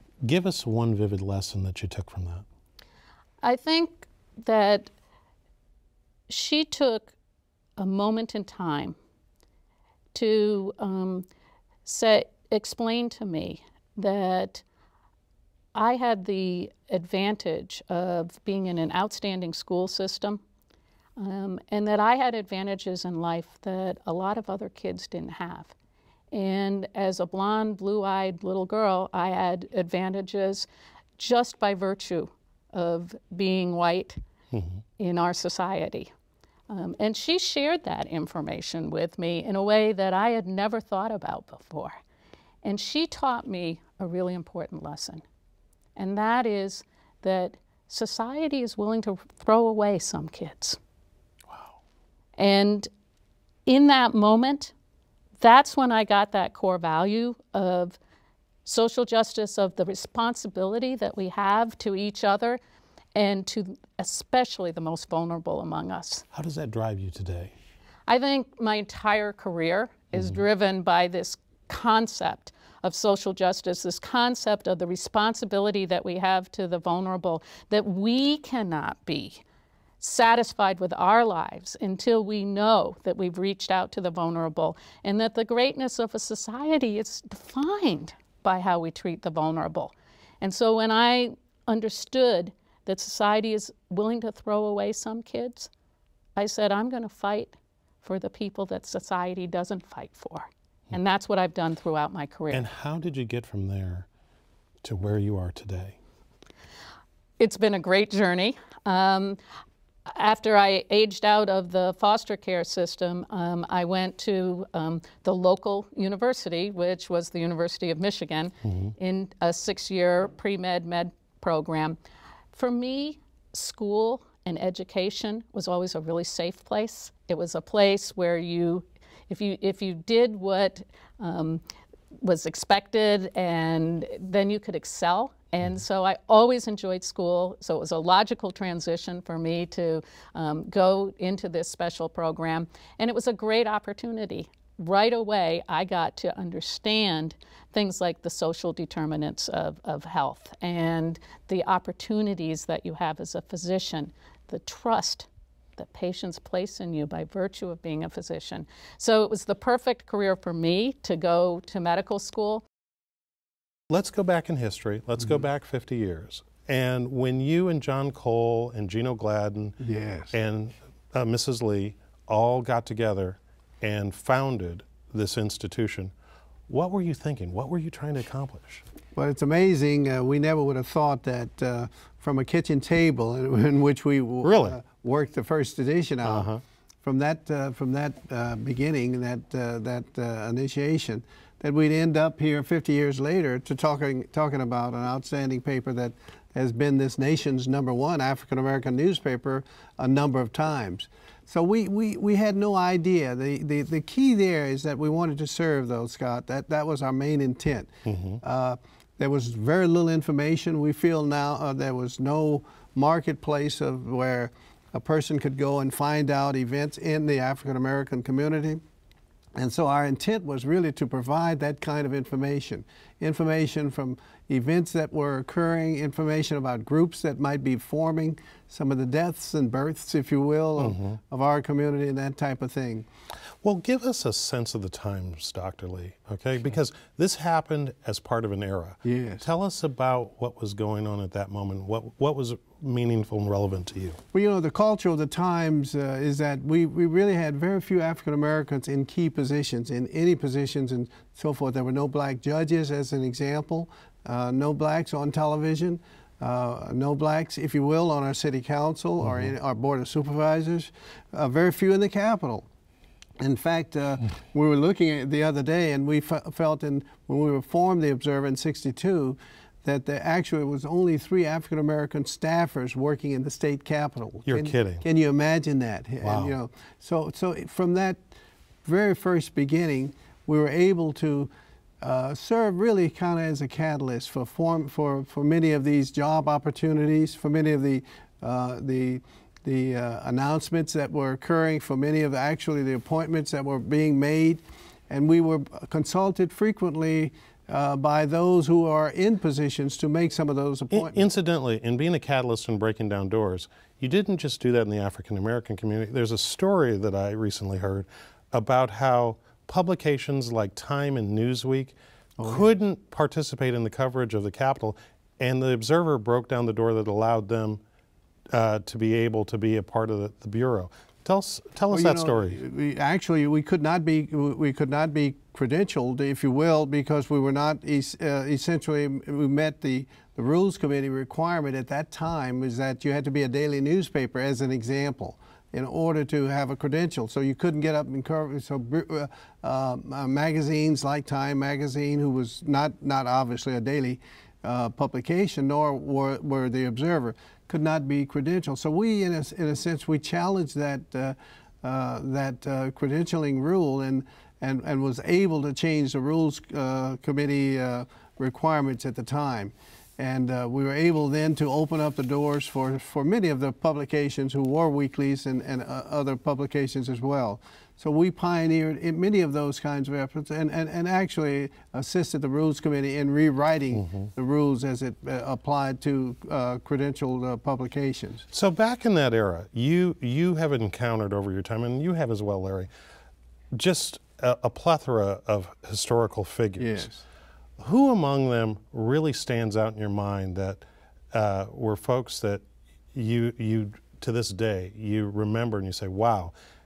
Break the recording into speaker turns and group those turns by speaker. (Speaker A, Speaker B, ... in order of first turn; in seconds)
Speaker A: 0.2-2.5, 34.5-34.8, 66.3-67.5, 102.5-104.1, 104.8-106.0, 118.7-118.9, 163.9-169.8, 170.3-176.1, 176.7-178.8, 184.4-184.8, 186.2-186.6, 208.1-208.4, 230.8-231.2, 233.6-244.2, 259.2-259.5, 274.4-275.1, 276.2-276.6, 300.9-317.8, 318.5-322.6, 373.9-374.3, 378.5-382.9, 383.7-387.1, 387.8-396.6
Speaker B: 3.4-4.9, 6.3-7.1, 7.8-9.0, 10.1-11.3, 11.8-14.6, 15.7-20.4, 21.2-25.7, 26.3-30.7, 31.2-34.2, 35.0-36.1, 36.7-42.0, 42.6-45.2, 46.0-50.8, 52.4-52.9, 53.7-54.7, 55.4-58.0, 58.6-62.6, 63.1-66.2, 68.1-79.4, 80.0-95.7, 96.4-102.7, 107.4-109.4, 110.1-122.0, 122.5-131.6, 132.2-162.6
Speaker C: 169.8-170.3, 179.2-186.5, 187.0-218.8, 219.6-233.1, 239.1-239.5, 244.3-262.7, 263.4-278.2, 278.9-281.5, 282.0-301.2, 312.4-312.7, 321.9-378.4, 386.8-387.2